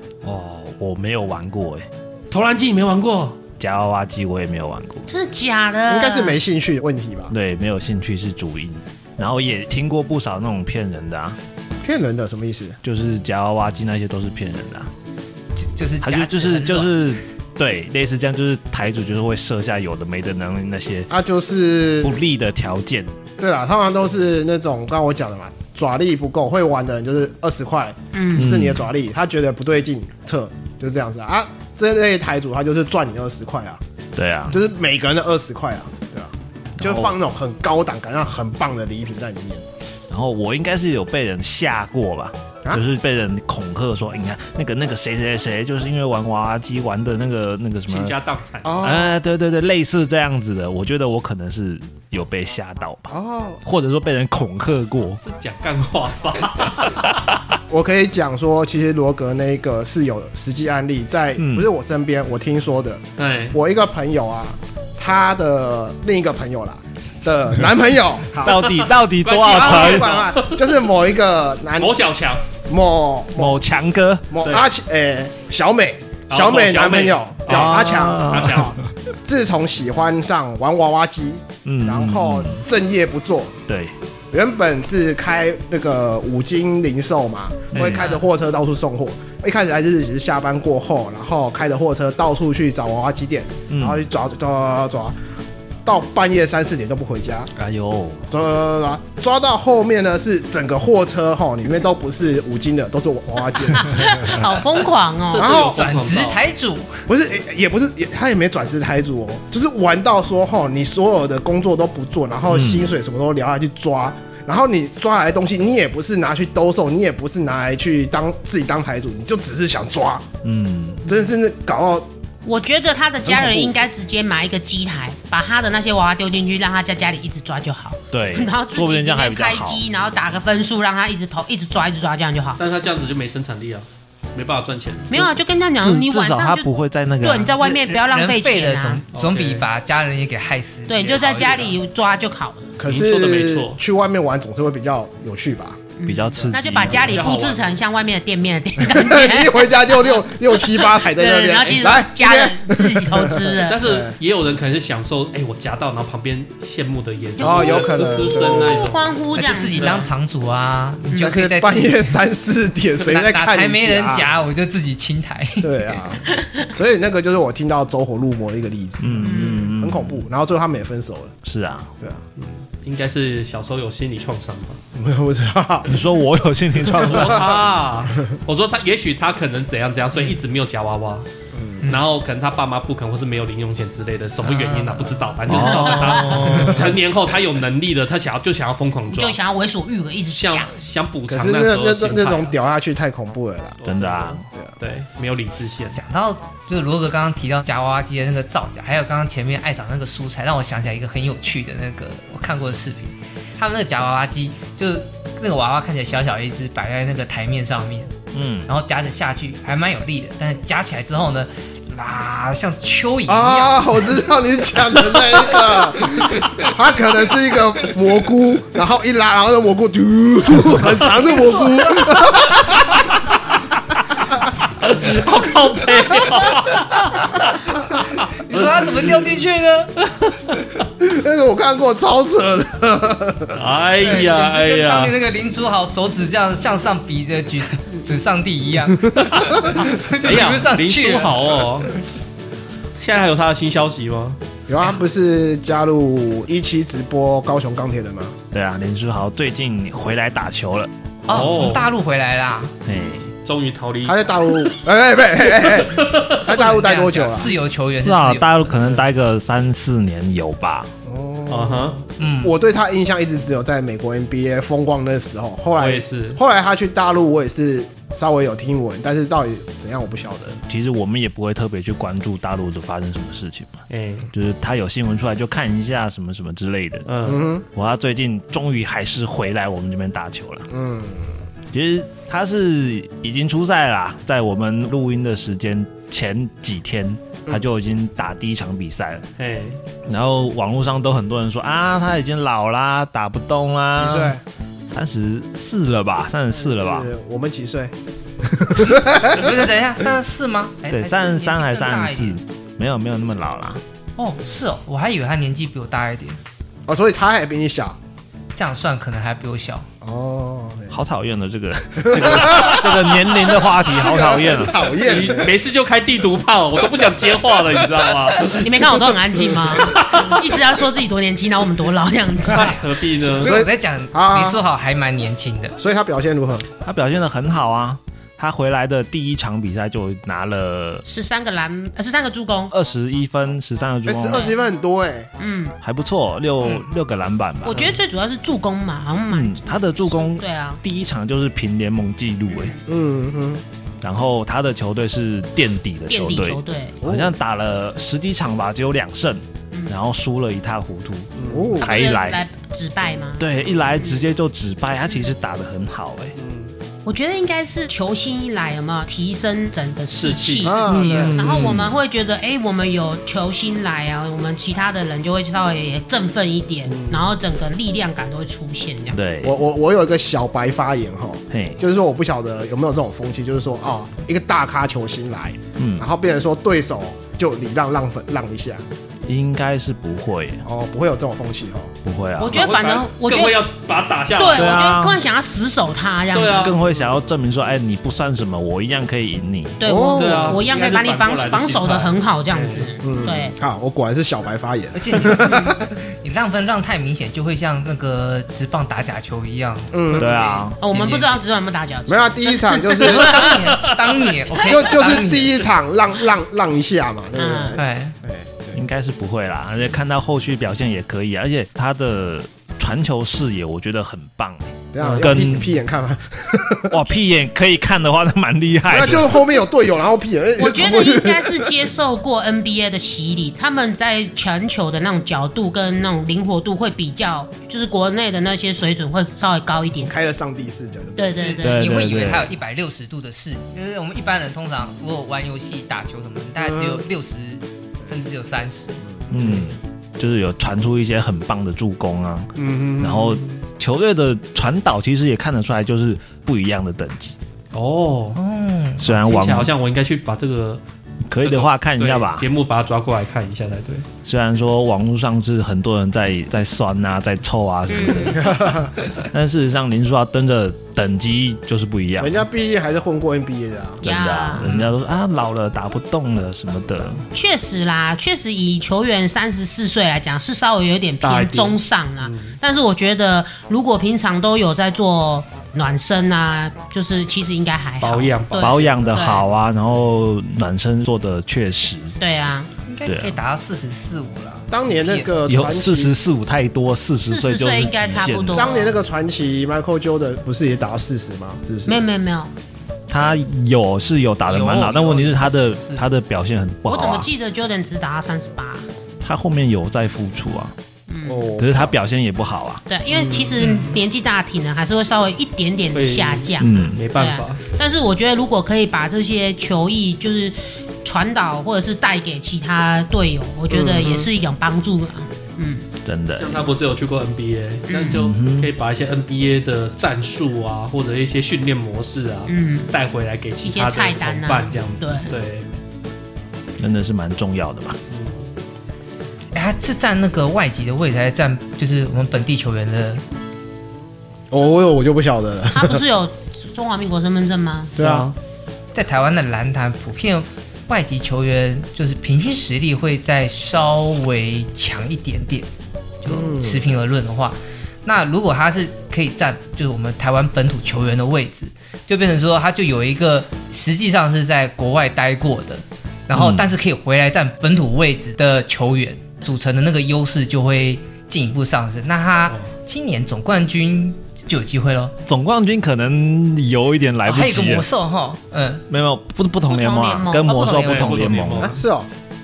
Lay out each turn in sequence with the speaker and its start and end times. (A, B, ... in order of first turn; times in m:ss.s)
0:00.2-0:01.8 A
0:02.3-0:03.4 B
0:03.6-0:05.1 A
0:05.1-0:06.4 C
0:05.9-0:07.3 D
0:07.3-0:11.4 A
0:11.8-0:12.8 D
0:12.8-0:14.9 A
0:15.6-0:17.0 E
0:16.0-0:21.1 A
0:21.1-0:22.1 D
0:22.0-0:23.1 A
0:23.4-0:33.8 D
0:28.1-0:28.5 C
0:28.4-0:28.9 A
0:34.1-0:34.6 A
0:34.5-0:39.6 D
0:36.8-0:37.2 A
0:40.1-0:48.1 A
0:47.9-0:49.0 B
0:48.6-0:49.1 D
0:48.8-0:55.2 A
0:53.1-0:53.6 D
0:55.2-0:57.2 B
0:57.7-1:08.7 D
1:01.4-1:01.7 A
1:03.2-1:03.6 B
1:08.4-1:10.2 A
1:08.5-1:10.8 B
1:09.4-1:12.0 D
1:11.8-1:12.4 B
1:12.7-1:13.6 D
1:13.4-1:14.3 A
1:14.3-1:23.6 D
1:16.3-1:18.7 B
1:17.5-1:18.7 A
1:21.6-1:22.6 A
1:23.7-1:23.9 A
1:24.3-1:35.1 D
1:27.7-1:28.1 A
1:33.7-1:34.0 A
1:35.8-1:37.5 D
1:37.5-1:38.2 A
1:38.3-1:44.4 D
1:43.7-1:45.5 C
1:45.3-1:46.4 B
1:45.4-1:45.8 D
1:45.5-1:47.0 E
1:47.1-2:00.2 D
1:52.5-1:53.0 A
2:00.4-2:01.1 A
2:01.1-2:02.1 D
2:02.4-2:12.6 C
2:03.2-2:03.7 D
2:08.1-2:09.8 A
2:12.6-2:15.1 B
2:15.1-2:16.7 C
2:15.8-2:17.6 A
2:17.2-2:19.0 C
2:17.9-2:21.7 E
2:19.1-2:19.6 B
2:20.9-2:22.8 C
2:21.2-2:21.6 B
2:22.8-2:27.2 D
2:22.8-2:23.8 B
2:26.0-2:30.2 C
2:26.0-2:27.3 A
2:26.9-2:27.7 B
2:28.8-2:34.1 D
2:30.7-2:33.8 C
2:31.6-2:31.8 B
2:33.7-2:39.2 B
2:37.4-2:40.0 C
2:37.4-2:38.9 D
2:39.3-2:42.2 E
2:39.7-2:40.1 B
2:41.2-2:44.3 D
2:43.0-2:46.0 E
2:45.6-2:51.3 D
2:46.4-2:46.7 C
2:49.0-2:50.3 A
2:49.2-2:49.7 C
2:51.4-2:51.9 A
2:52.4-2:54.8 B
2:54.9-2:56.0 D
2:55.9-2:57.6 A
2:56.8-2:58.3 D
2:57.0-3:01.2 B
3:01.5-3:01.8 D
3:01.8-3:09.4 B
3:04.4-3:06.9 E
3:05.5-3:06.0 A
3:05.7-3:06.7 C
3:09.1-3:10.7 C
3:10.3-3:12.5 B
3:11.3-3:14.7 D
3:13.8-3:14.4 A
3:13.9-3:16.0 B
3:15.9-3:28.1 E
3:28.3-3:28.7 A
3:28.7-3:34.2 E
3:33.3-3:43.1 D
3:41.3-3:42.3 E
3:44.8-3:47.5 B
3:48.3-3:49.9 E
3:48.5-3:49.2 B
3:51.0-3:53.6 D
3:53.5-3:55.1 B
3:54.0-4:01.6 E
3:59.2-3:59.8 D
3:59.7-4:01.9 B
4:03.0-4:04.4 B
4:04.7-4:08.4 D
4:08.5-4:10.9 A
4:11.3-4:12.7 E
4:11.3-4:11.9 B
4:12.8-4:13.3 A
4:13.4-4:14.7 B
4:14.0-4:17.5 D
4:15.5-4:16.4 B
4:16.5-4:18.8 E
4:18.0-4:20.9 A
4:21.0-4:30.6 D
4:21.5-4:22.0 B
4:22.2-4:22.6 E
4:25.8-4:26.4 B
4:30.7-4:37.1 A
4:33.9-4:34.3 B
4:37.0-4:37.5 B
4:37.2-4:37.6 D
4:37.7-4:40.7 A
4:40.7-4:41.4 D
4:41.7-4:49.2 A
4:49.4-4:49.8 B
4:50.0-4:57.1 A
4:54.0-4:54.4 D
4:56.5-4:59.7 D
4:59.2-5:02.4 E
5:00.9-5:03.8 A
5:04.2-5:06.4 E
5:06.9-5:08.0 D
5:08.5-5:09.9 E
5:10.0-5:11.0 D
5:10.9-5:15.0 A
5:12.0-5:15.5 D
5:14.9-5:18.9 B
5:18.5-5:22.8 C
5:19.7-5:20.4 B
5:22.5-5:23.6 B
5:23.3-5:24.6 D
5:23.4-5:25.8 E
5:25.8-5:26.6 D
5:26.8-5:31.0 A
5:31.0-5:32.7 C
5:32.7-5:34.5 A
5:34.0-5:35.3 D
5:34.3-5:34.6 C
5:35.4-5:35.8 C
5:35.8-5:37.8 A
5:37.6-5:40.8 C
5:37.7-5:38.0 B
5:39.3-5:42.7 A
5:42.5-5:42.8 C
5:42.8-5:43.6 D
5:44.0-5:52.4 A
5:46.1-5:47.0 C
5:47.0-5:47.3 D
5:51.4-5:51.7 B
5:51.5-5:52.0 D
5:51.8-5:54.2 C
5:53.4-5:56.4 A
5:56.4-5:56.7 B
5:57.0-6:09.2 C
6:00.1-6:01.0 B
6:00.6-6:01.6 D
6:00.9-6:02.0 A
6:09.1-6:09.6 A
6:09.4-6:18.8 D
6:11.5-6:11.8 A
6:15.8-6:16.1 A
6:19.2-6:20.6 A
6:20.6-6:21.9 D
6:22.0-6:22.7 A
6:22.4-6:23.6 C
6:22.5-6:24.8 B
6:24.3-6:26.8 C
6:24.5-6:25.2 A
6:26.3-6:27.1 B
6:26.6-6:29.8 A
6:29.8-6:33.6 C
6:29.8-6:30.7 D
6:30.1-6:32.9 B
6:33.0-6:35.8 D
6:34.9-6:41.4 E
6:39.9-6:40.4 D
6:40.1-6:40.8 A
6:40.7-6:43.6 C
6:42.1-6:43.6 D
6:42.9-6:45.7 E
6:43.8-6:44.8 B
6:44.6-6:48.8 D
6:47.3-6:47.8 C
6:47.7-6:48.2 E
6:48.7-6:55.8 A
6:54.9-6:57.0 D
6:55.0-6:55.3 E
6:56.9-6:59.4 A
6:58.9-7:01.8 D
7:00.6-7:10.1 C
7:09.9-7:11.5 D
7:11.2-7:11.9 C
7:11.4-7:19.5 E
7:11.6-7:12.5 A
7:16.6-7:17.0 D
7:19.3-7:27.4 A
7:22.6-7:23.6 B
7:27.7-7:28.4 B
7:28.4-7:29.0 E
7:29.0-7:29.7 A
7:29.0-7:30.8 B
7:31.3-7:32.5 A
7:31.4-7:34.0 B
7:34.2-7:38.5 A
7:37.9-7:38.5 C
7:38.4-7:38.9 D
7:39.2-7:42.4 A
7:42.2-7:44.0 D
7:44.0-7:47.2 A
7:44.0-7:44.7 C
7:47.3-7:59.4 C
7:51.2-7:52.6 B
7:58.0-7:59.3 B
7:58.6-8:02.2 A
8:02.2-8:02.7 C
8:02.9-8:05.3 E
8:03.0-8:03.4 A
8:04.7-8:06.1 D
8:05.5-8:08.7 A
8:07.2-8:08.9 C
8:07.6-8:08.3 B
8:08.5-8:12.0 D
8:11.8-8:12.5 C
8:13.1-8:17.3 A
8:14.5-8:16.1 E
8:16.8-8:18.9 C
8:19.2-8:20.7 A
8:21.1-8:21.5 C
8:21.2-8:21.9 D
8:21.6-8:22.8 A
8:22.9-8:35.9 C
8:23.1-8:23.8 B
8:25.9-8:27.6 B
8:26.6-8:27.0 A
8:33.7-8:34.3 D
8:36.0-8:36.6 A
8:36.4-8:45.7 B
8:37.9-8:38.2 C
8:38.1-8:38.7 A
8:42.5-8:43.0 C
8:43.6-8:45.3 C
8:46.8-8:48.0 A
8:48.1-8:48.5 B
8:49.5-8:53.2 E
8:54.5-8:56.0 D
8:55.7-8:58.0 C
8:58.0-8:58.3 D
8:58.0-8:58.4 B
8:58.9-9:05.7 E
9:06.2-9:25.1 E
9:06.3-9:06.8 D
9:16.3-9:16.7 A
9:25.2-9:27.9 A
9:27.2-9:28.8 E
9:28.9-9:31.8 A
9:29.7-9:30.9 C
9:30.5-9:31.1 E
9:30.7-9:31.8 B
9:31.6-9:32.1 D